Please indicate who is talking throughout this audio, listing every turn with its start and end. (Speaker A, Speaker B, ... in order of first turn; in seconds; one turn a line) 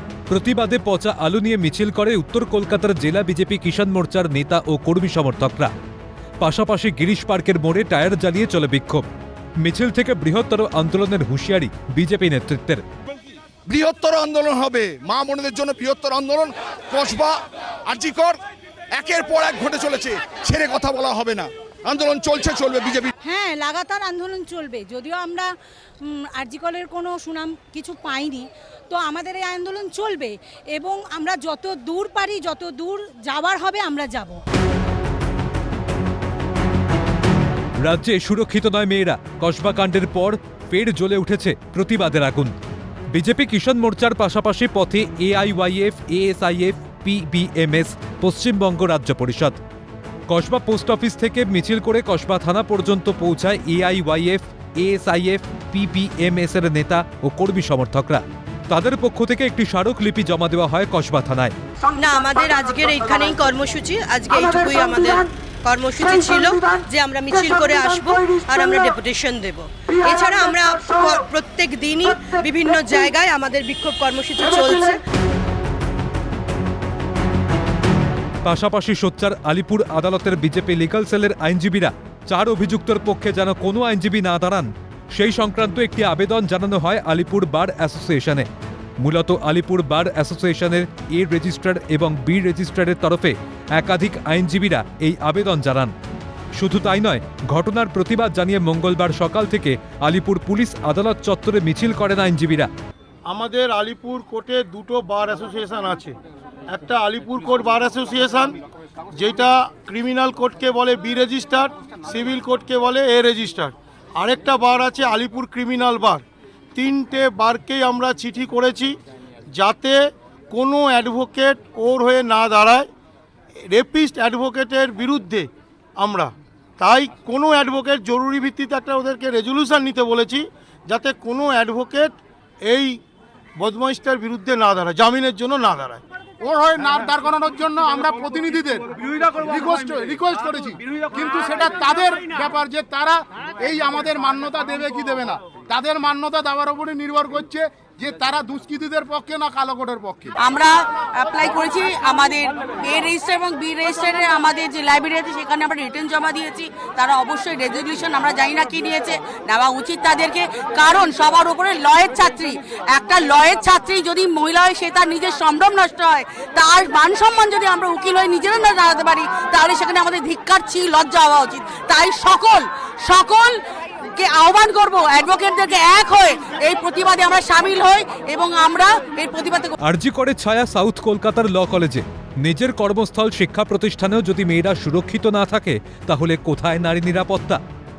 Speaker A: 0.3-5.7
Speaker A: 6.4-9.1
Speaker A: 9.6-12.8
Speaker B: 13.7-18.4
Speaker B: 18.9-23.1
Speaker C: 23.2-25.5
Speaker C: 26.0-34.4
Speaker A: 37.8-42.5
Speaker A: 43.1-49.6
Speaker A: 50.3-61.5
Speaker D: 62.0-75.0
Speaker A: 78.4-88.5
Speaker A: 89.0-95.9
Speaker A: 96.6-102.7
Speaker E: 103.3-106.2
Speaker E: 106.7-108.6
Speaker E: 109.1-116.2
Speaker E: 116.8-119.0
Speaker E: 119.5-122.9
Speaker E: 123.7-133.0
Speaker E: 133.6-136.0
Speaker F: 136.4-150.3
Speaker G: 150.4-173.6
Speaker G: 174.1-179.7
Speaker A: 179.8-187.6